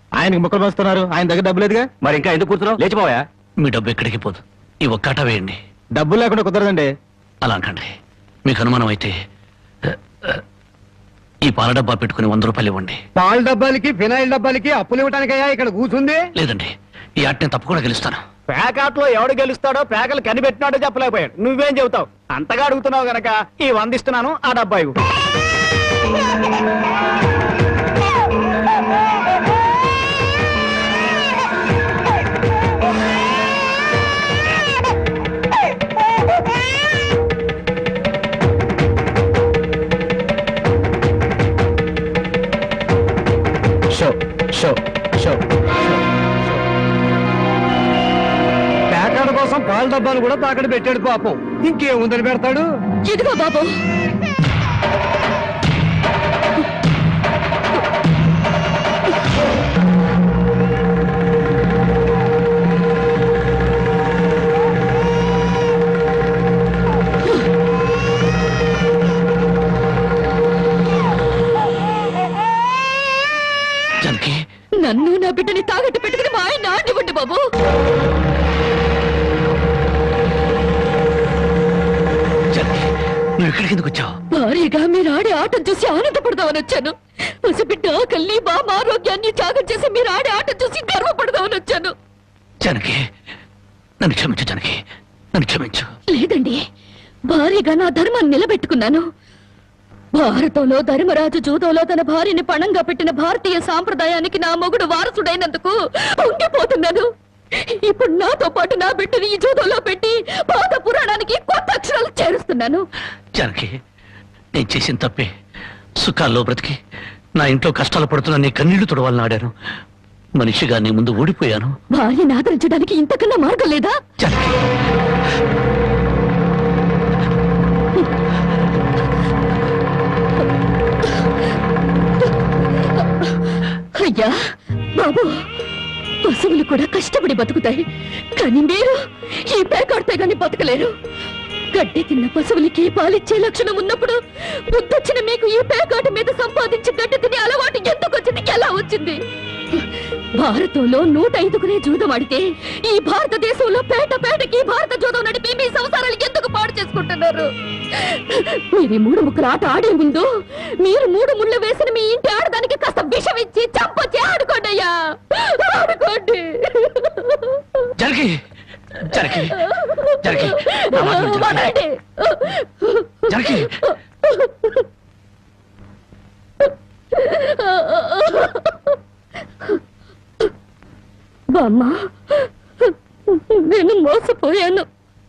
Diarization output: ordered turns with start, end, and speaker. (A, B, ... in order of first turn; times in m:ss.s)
0:00.2-0:01.9 A
0:03.6-0:05.6 B
0:06.0-0:06.8 A
0:07.4-0:07.9 B
0:08.4-0:09.1 B
0:09.9-0:10.4 B
0:11.4-0:13.0 B
0:13.2-0:16.2 C
0:16.4-0:18.2 B
0:18.6-0:24.9 D
0:44.0-0:45.4 C
0:48.9-0:52.6 C
0:53.0-0:53.7 E
1:14.0-1:14.4 B
1:14.8-1:17.4 E
1:22.5-1:24.1 B
1:24.3-1:31.9 E
1:32.6-1:33.0 B
1:34.0-1:34.8 B
1:35.3-1:35.9 B
1:36.1-1:36.6 E
1:37.3-1:39.0 E
1:40.1-1:47.0 E
1:47.8-1:52.8 E
1:53.3-1:53.7 B
1:54.5-1:55.3 B
1:56.0-1:56.8 B
1:57.4-1:59.5 B
2:00.4-2:01.7 B
2:01.9-2:04.0 E
2:04.2-2:04.6 B
2:14.0-2:14.4 E
2:14.9-2:15.4 E
2:16.2-2:20.9 E
2:21.7-2:29.2 E
2:30.4-2:40.3 E
2:40.8-2:47.8 E
2:48.0-2:48.3 B
2:49.0-2:49.6 B
2:49.1-2:54.8 E
2:50.2-2:51.7 B
2:53.3-2:53.7 B
2:57.1-2:59.0 E
3:01.5-3:04.8 E